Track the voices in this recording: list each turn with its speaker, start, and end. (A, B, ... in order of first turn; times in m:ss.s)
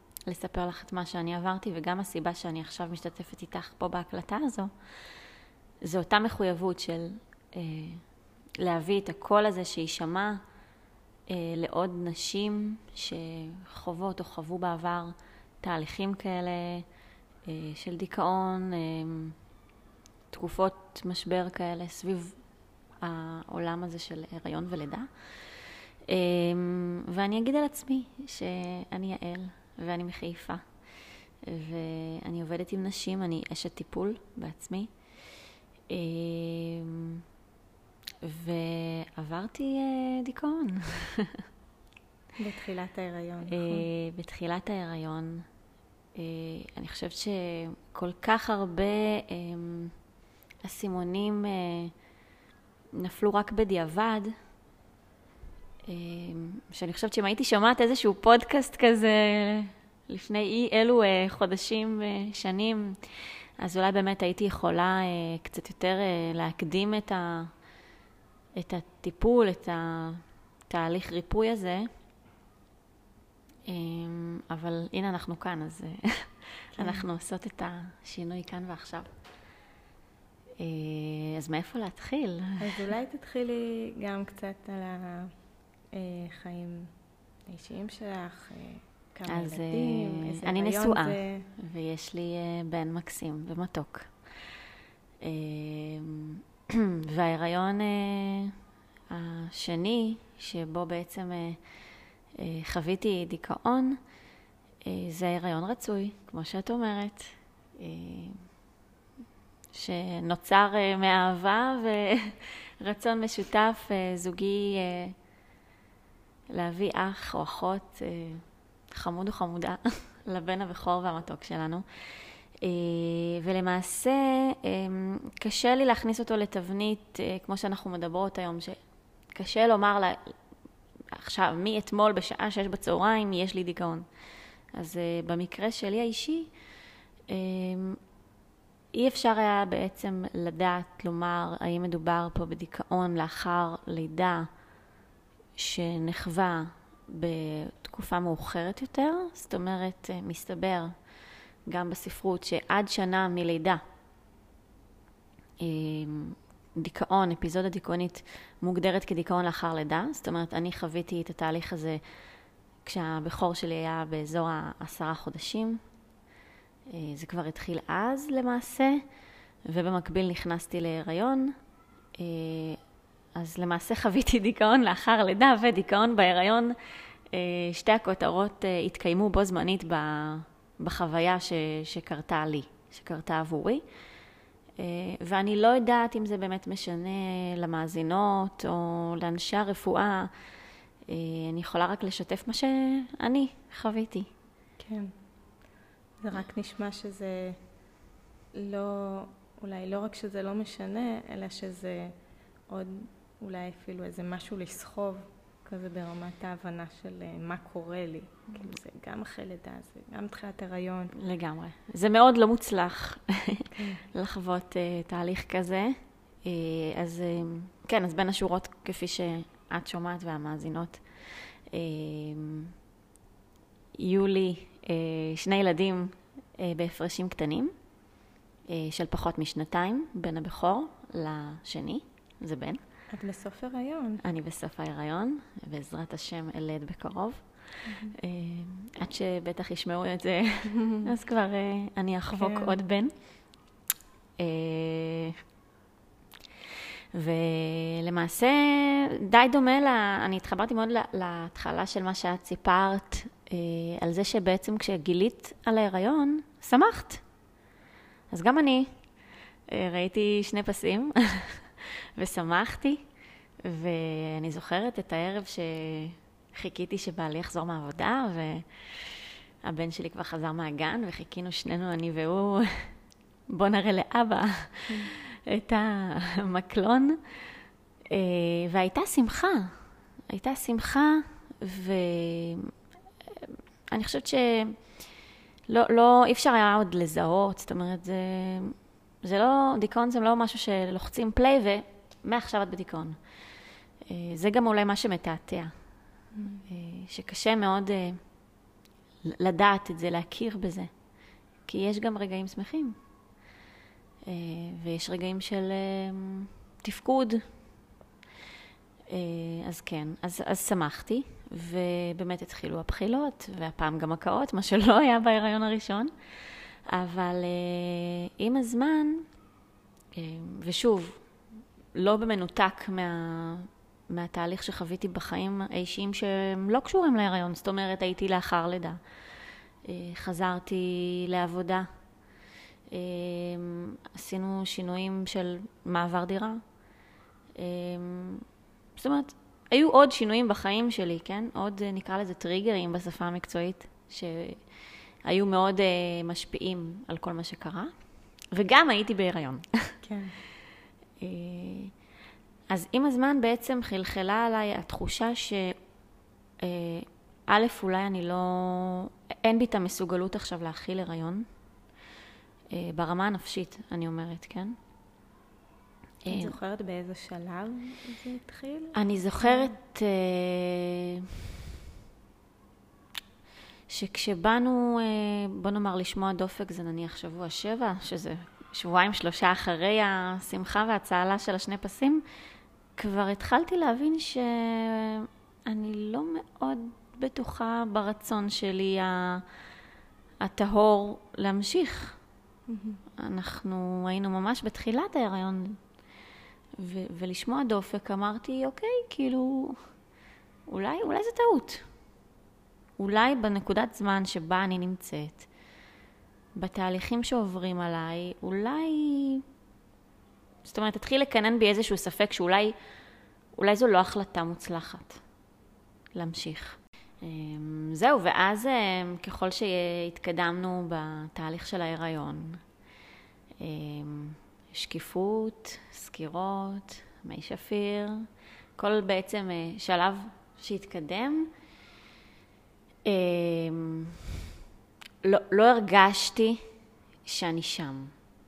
0:00.3-0:05.1 A
0:05.8-0:08.0 A
0:08.6-0:10.4 A
0:11.3-0:16.8 A
0:17.4-0:19.4 A
0:20.3-0:22.4 A
0:23.0-0:30.6 A
0:31.4-0:34.9 A
0:35.9-0:37.2 A
0:38.2-0:41.4 A
0:42.4-0:43.8 B
0:43.5-0:45.4 A
0:46.1-0:49.9 A
0:50.6-0:51.9 A
0:52.9-0:54.3 A
0:55.9-1:07.5 A
1:08.5-1:11.9 A
1:13.6-1:19.1 A
1:16.7-1:17.1 B
1:20.6-1:22.8 A
1:22.6-1:25.3 B
1:25.9-1:26.9 B
1:27.5-1:31.5 B
1:29.3-1:34.2 A
1:35.2-1:38.6 A
1:39.1-1:41.6 A
1:42.3-1:44.0 A
1:44.8-1:48.4 A
1:49.7-1:55.2 A
1:56.5-2:08.8 A
2:09.3-2:10.4 A
2:11.1-2:14.0 A
2:14.7-2:16.5 A
2:17.3-2:18.0 A
2:18.9-2:24.5 A
2:25.6-2:30.9 A
2:31.6-2:33.8 A
2:35.6-2:42.0 A
2:42.8-2:45.8 A
2:46.9-2:49.0 A
2:49.7-2:51.6 A
2:52.2-2:52.8 A
2:53.4-2:56.8 A
2:57.3-3:03.8 A
3:04.8-3:10.3 A
3:11.0-3:14.3 A
3:14.8-3:15.1 B
3:16.2-3:17.6 B
3:18.5-3:22.1 B
3:22.7-3:31.1 B
3:31.1-3:42.7 A
3:33.7-3:34.0 B
3:44.0-3:47.7 A
3:48.7-3:52.8 A
3:53.1-3:54.2 B
3:54.2-4:03.1 A
3:57.8-3:58.1 B
4:02.3-4:02.7 B
4:04.4-4:05.4 A
4:07.1-4:17.2 A
4:18.3-4:18.9 A
4:19.7-4:23.0 A
4:23.6-4:32.9 A
4:33.5-4:39.7 A
4:40.3-4:42.7 A
4:43.2-4:44.9 A
4:45.7-4:53.2 A
4:54.0-4:55.7 A
4:56.3-4:56.6 B
4:56.7-4:58.2 A
4:59.2-5:00.9 A
5:01.7-5:03.0 A
5:04.2-5:07.4 A
5:09.1-5:16.1 A
5:16.8-5:19.2 A
5:20.1-5:21.2 A
5:21.9-5:29.0 A
5:29.8-5:31.9 A
5:32.9-5:36.6 A
5:37.6-5:38.4 A
5:39.0-5:47.9 A
5:48.5-5:50.0 A
5:50.0-5:50.4 B
5:51.2-5:51.9 A
5:52.7-5:55.8 A
5:56.6-6:01.4 A
6:02.7-6:04.7 A
6:06.2-6:06.5 A
6:06.3-6:09.7 B
6:08.9-6:11.5 A
6:13.9-6:22.2 A
6:23.0-6:29.4 A
6:30.4-6:32.2 A
6:32.7-6:33.0 B
6:33.2-6:35.8 A
6:36.8-6:39.8 A
6:40.7-6:41.8 A
6:43.0-6:45.5 A
6:46.6-6:49.4 A
6:50.6-6:52.7 A
6:53.6-6:55.2 A
6:56.1-7:02.6 A
7:03.6-7:08.2 A
7:08.8-7:11.5 A
7:13.0-7:14.4 A
7:15.2-7:16.6 A
7:17.2-7:18.1 A